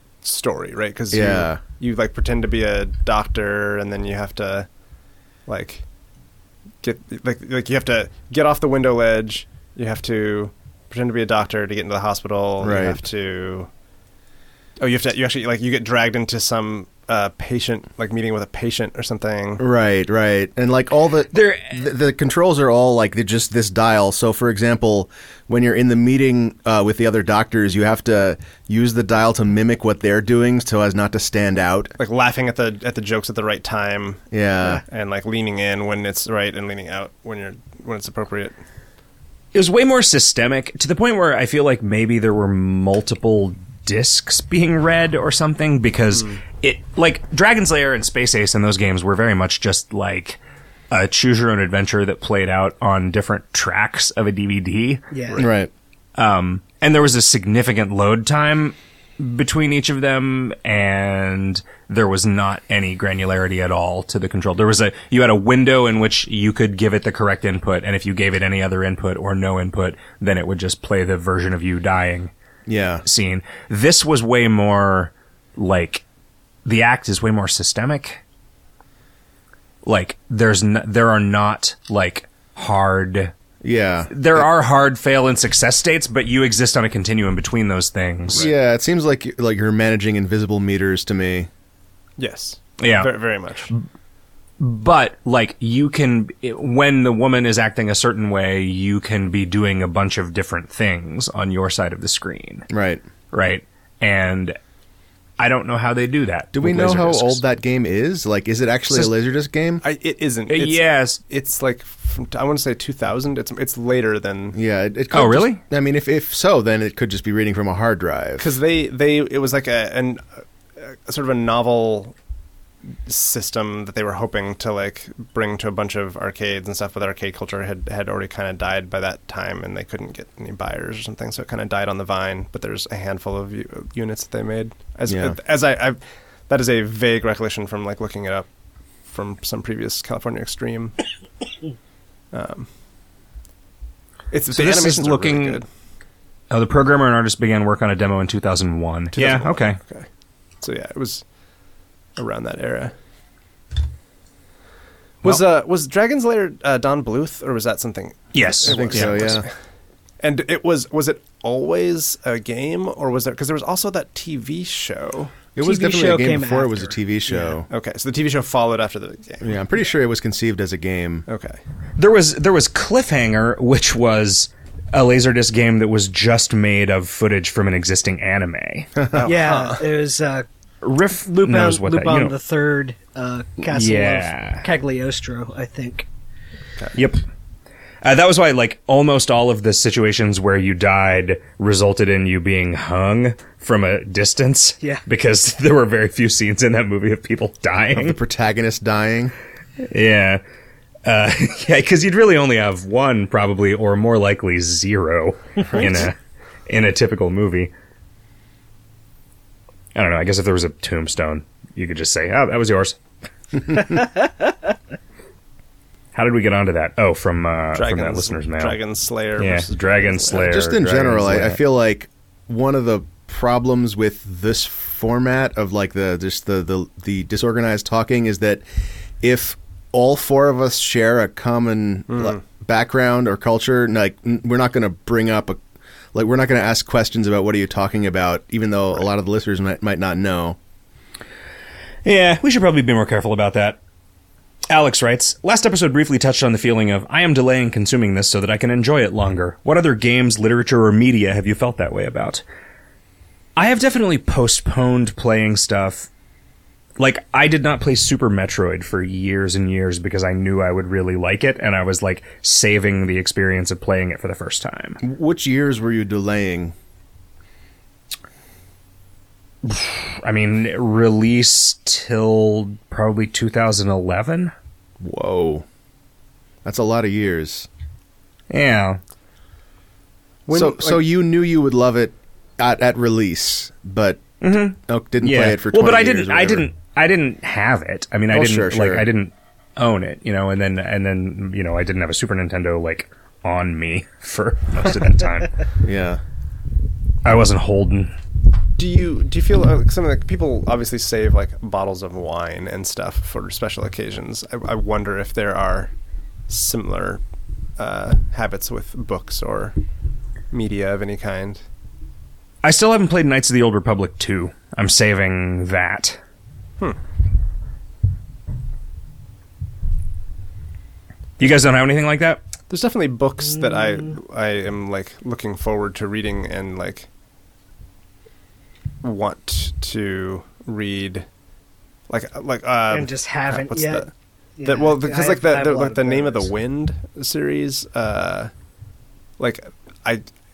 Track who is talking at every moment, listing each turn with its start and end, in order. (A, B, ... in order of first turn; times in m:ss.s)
0:00.2-0:04.7 A
0:01.1-0:01.6 B
0:05.4-0:05.8 A
0:06.8-0:13.7 A
0:12.6-0:13.0 B
0:14.8-0:19.6 A
0:19.6-0:31.9 B
0:21.3-0:21.7 C
0:32.0-0:34.2 A
0:34.3-0:34.8 B
0:34.7-0:38.6 A
0:39.5-0:50.4 C
0:50.9-0:55.0 C
0:55.1-0:55.4 D
0:55.4-0:55.7 B
0:56.2-1:12.3 C
1:12.7-1:13.0 B
1:13.0-1:16.0 C
1:16.6-1:18.2 C
1:19.8-1:23.3 C
1:23.6-1:24.4 B
1:24.1-1:28.4 C
1:28.3-1:31.5 B
1:32.2-1:33.7 A
1:32.8-1:33.1 C
1:34.6-1:42.7 C
1:42.7-1:43.0 B
1:43.3-1:44.6 C
1:45.4-1:47.4 C
1:46.5-1:49.8 B
1:49.8-1:54.6 A
1:50.5-1:51.2 C
1:54.5-1:58.5 B
1:55.1-1:55.6 C
1:58.4-2:00.2 A
2:00.8-2:02.1 A
2:03.0-2:18.5 A
2:15.1-2:15.4 B
2:19.1-2:20.9 A
2:22.3-2:22.7 A
2:24.3-2:25.6 A
2:24.5-2:25.6 C
2:26.5-2:29.8 C
2:29.1-2:30.1 A
2:30.6-2:31.2 A
2:32.2-2:32.9 A
2:35.2-2:39.5 A
2:38.3-2:39.4 C
2:38.6-2:39.4 B
2:40.2-2:45.4 A
2:45.5-2:47.7 B
2:45.6-2:47.5 D
2:47.7-2:49.6 A
2:49.4-2:51.2 B
2:51.3-2:51.6 A
2:52.0-2:58.9 C
2:59.1-2:59.8 A
2:59.2-3:00.4 D
3:00.8-3:02.3 C
3:01.2-3:06.0 D
3:03.7-3:04.6 C
3:06.9-3:07.2 C
3:08.0-3:18.2 C
3:17.9-3:19.3 B
3:19.8-3:20.4 C
3:21.0-3:26.1 C
3:25.7-3:26.1 B
3:26.7-3:27.7 C
3:29.9-3:33.0 C
3:36.1-3:38.8 C
3:37.7-3:40.5 A
3:39.4-3:41.6 C
3:40.3-3:48.6 B
3:49.2-3:55.6 B
3:52.1-3:52.4 A
3:56.1-4:00.6 B
4:02.0-4:03.8 C
4:04.7-4:12.4 C
4:13.6-4:16.1 C
4:17.0-4:25.0 C
4:25.0-4:26.7 B
4:29.6-4:34.5 C
4:35.0-4:35.6 B
4:36.6-4:37.7 B
4:38.5-4:39.0 C
4:40.4-4:41.0 A
4:40.5-4:44.3 B
4:44.4-4:55.6 C
4:44.9-4:46.7 B
4:48.3-4:49.0 B
4:55.8-4:56.2 B
4:57.2-4:58.1 C
4:58.8-5:05.9 A
5:06.5-5:07.2 A
5:07.8-5:09.8 A
5:10.5-5:11.6 A
5:12.6-5:16.2 C
5:21.4-5:22.4 C
5:22.7-5:27.1 A
5:29.0-5:31.2 A
5:32.1-5:34.1 A
5:32.9-5:36.5 D
5:34.6-5:38.5 A
5:39.4-5:40.2 A